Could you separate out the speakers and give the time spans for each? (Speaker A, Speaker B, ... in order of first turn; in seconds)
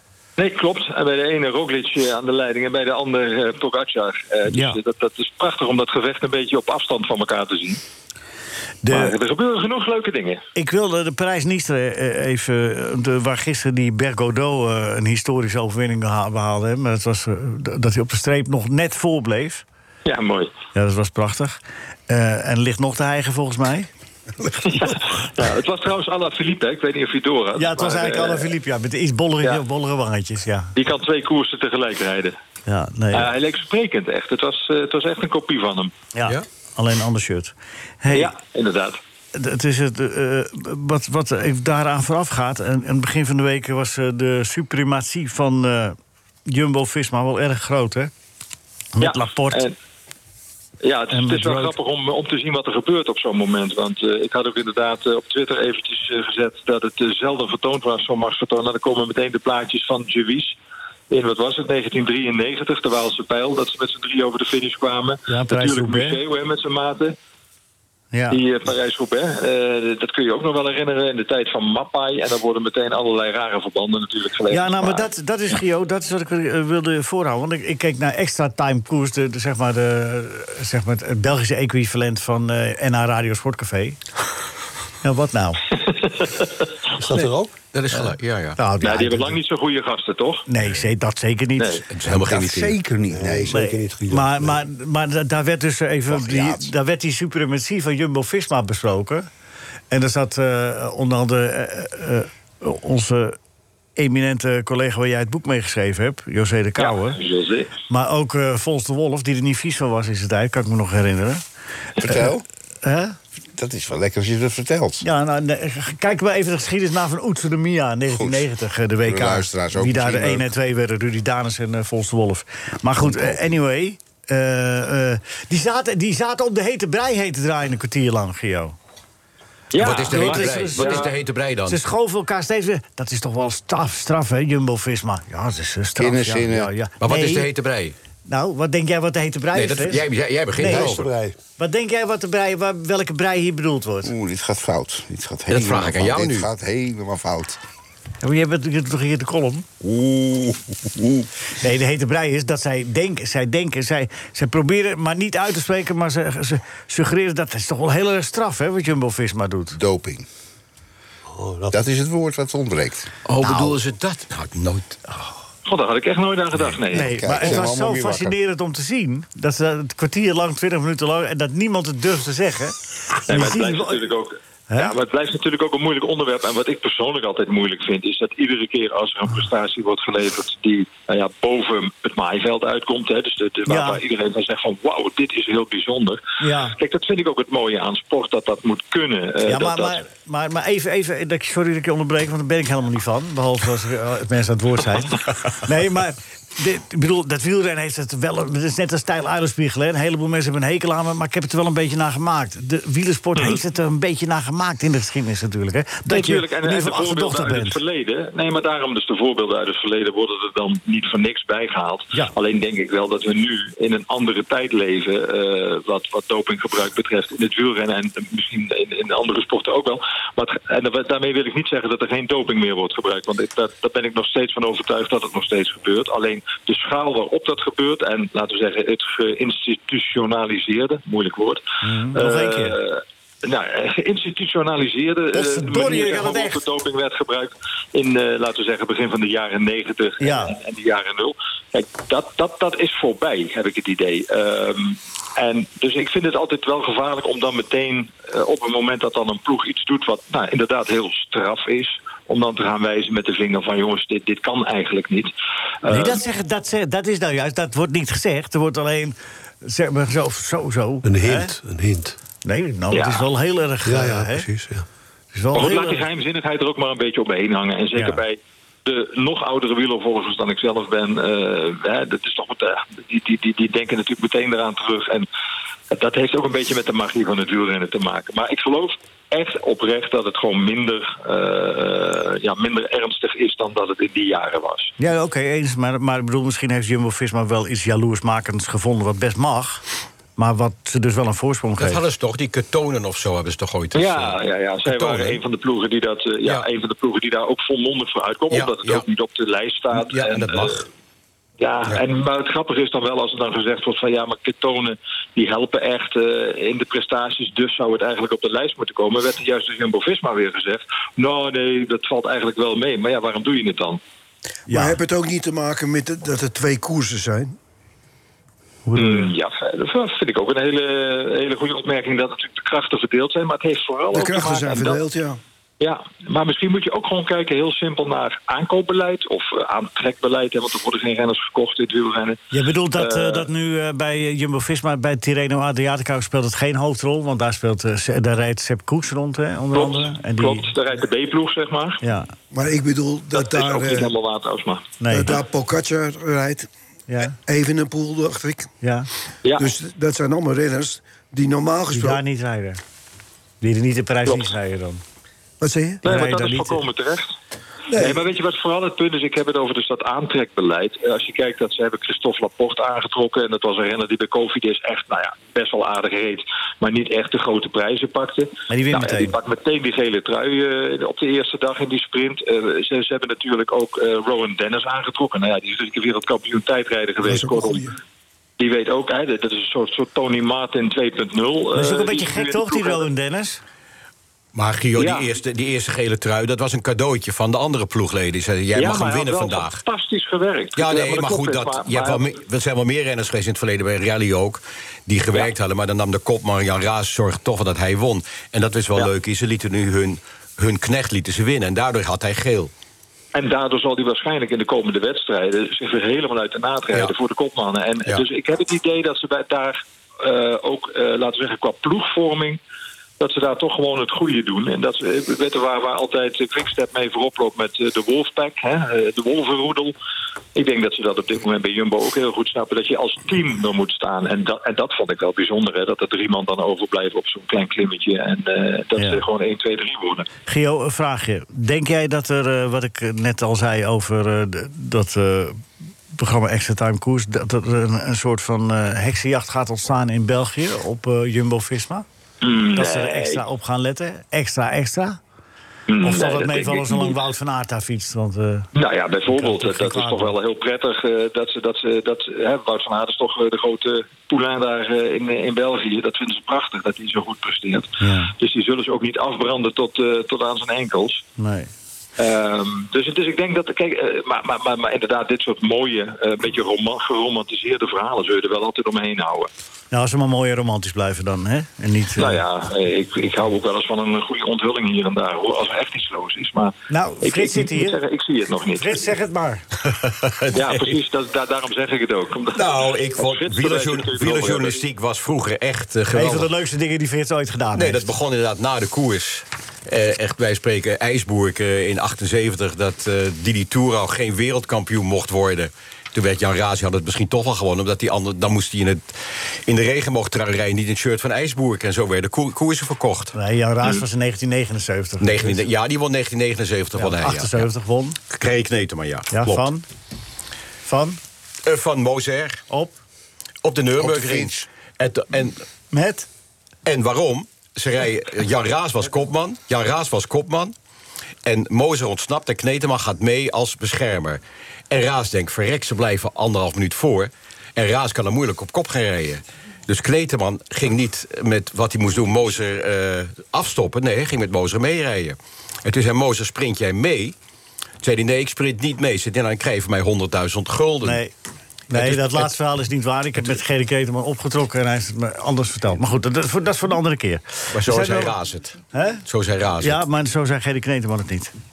Speaker A: 0.4-7.8, 8.9-10.4, 20.1-20.5, 24.6-28.5, 30.7-32.4, 33.1-35.9, 38.1-39.0, 49.0-49.7, 50.8-60.5, 61.1-67.2, 68.3-75.1, 85.8-86.5, 88.8-90.4, 91.6-91.8, 106.8-107.7, 129.7-131.1, 165.7-167.2, 173.3-190.0, 206.1-231.6, 232.1-255.3, 255.8-256.2, 262.9-263.3, 265.5-275.3, 275.9-284.9, 293.9-300.8, 301.6-314.0, 318.9-325.0, 325.8-332.4, 333.0-333.5, 339.7-342.0, 343.3-344.9, 354.2-354.5, 356.0-357.3, 358.0-377.9, 378.6-383.1, 385.0-385.3, 388.7-392.3, 403.3-412.6, 413.2-419.9, 420.5-430.3, 442.4-443.4, 445.9-447.2, 448.7-461.2, 462.2-469.5, 472.1-479.1, 480.5-484.8
Speaker B: 4.5-4.8, 8.8-9.1, 10.5-19.6, 20.7-23.9, 27.6-30.7, 32.7-33.3, 36.1-38.3, 39.3-48.1, 49.0-49.6, 51.1-51.7, 65.3-66.2, 68.1-68.4, 74.5-84.0, 85.0-85.6, 88.6-89.4, 90.5-91.8, 93.5-99.3, 99.9-103.4, 104.0-107.2, 107.9-111.4, 112.0-112.3, 112.8-113.2, 115.0-128.8, 130.0-131.0, 131.7-137.5, 138.2-140.0, 140.6-140.9, 141.6-144.1, 148.2-149.7, 151.6-159.8, 166.9-174.0, 183.7-184.0, 186.4-186.7, 189.4-207.8, 231.8-232.8, 235.3-236.6, 240.2-240.6, 255.9-261.5, 262.4-264.5, 265.3-266.0, 267.9-268.2, 285.0-289.8, 290.4-292.0, 314.7-315.0, 318.9-319.3, 332.5-340.7, 342.0-342.3, 345.0-345.4, 347.1-347.4, 348.8-349.1, 351.9-352.8, 353.6-355.0, 356.0-356.8, 368.7-369.4, 381.7-383.6, 429.0-429.2, 430.4-435.6, 436.1-442.0, 442.7-445.2, 446.0-448.7, 449.3-450.3, 458.0-458.3, 461.4-461.7, 469.9-472.4, 476.9-478.0, 478.8-479.6, 486.1-488.1, 503.3-505.6, 506.9-508.2, 509.3-509.8, 510.9-511.2, 512.7-513.0, 515.9-516.3, 541.0-541.3, 541.9-548.3, 548.9-549.2, 549.8-551.5
Speaker C: 87.0-87.5, 93.1-94.6, 140.6-141.3, 161.3-161.8, 261.0-262.1, 263.8-264.8
Speaker D: 87.7-88.6, 91.9-92.7, 129.8-131.8, 137.0-137.9, 139.5-141.1, 145.5-146.5, 163.2-165.0, 291.8-295.4, 298.5-299.0, 299.9-300.9, 384.5-389.8, 390.8-402.7, 480.0-481.0, 482.5-486.5, 487.7-499.1, 499.7-503.4, 505.2-507.7, 508.3-509.7, 511.6-512.6, 513.6-515.6, 516.8-520.7, 521.5-537.3, 538.0-541.2, 541.9-542.5, 547.7-550.0
Speaker E: 92.0-93.5, 96.1-96.7, 112.0-112.4, 113.5-115.0, 118.1-118.5, 119.0-120.5, 122.9-123.5, 136.0-136.7, 144.0-147.6, 149.8-151.3, 159.7-160.3, 161.7-163.7, 166.9-168.4, 514.0-514.6
Speaker F: 314.7-317.5, 324.1-325.4, 342.5-344.1, 345.1-346.7, 347.4-348.7, 349.6-352.2, 355.6-356.0, 357.9-358.2, 377.2-377.9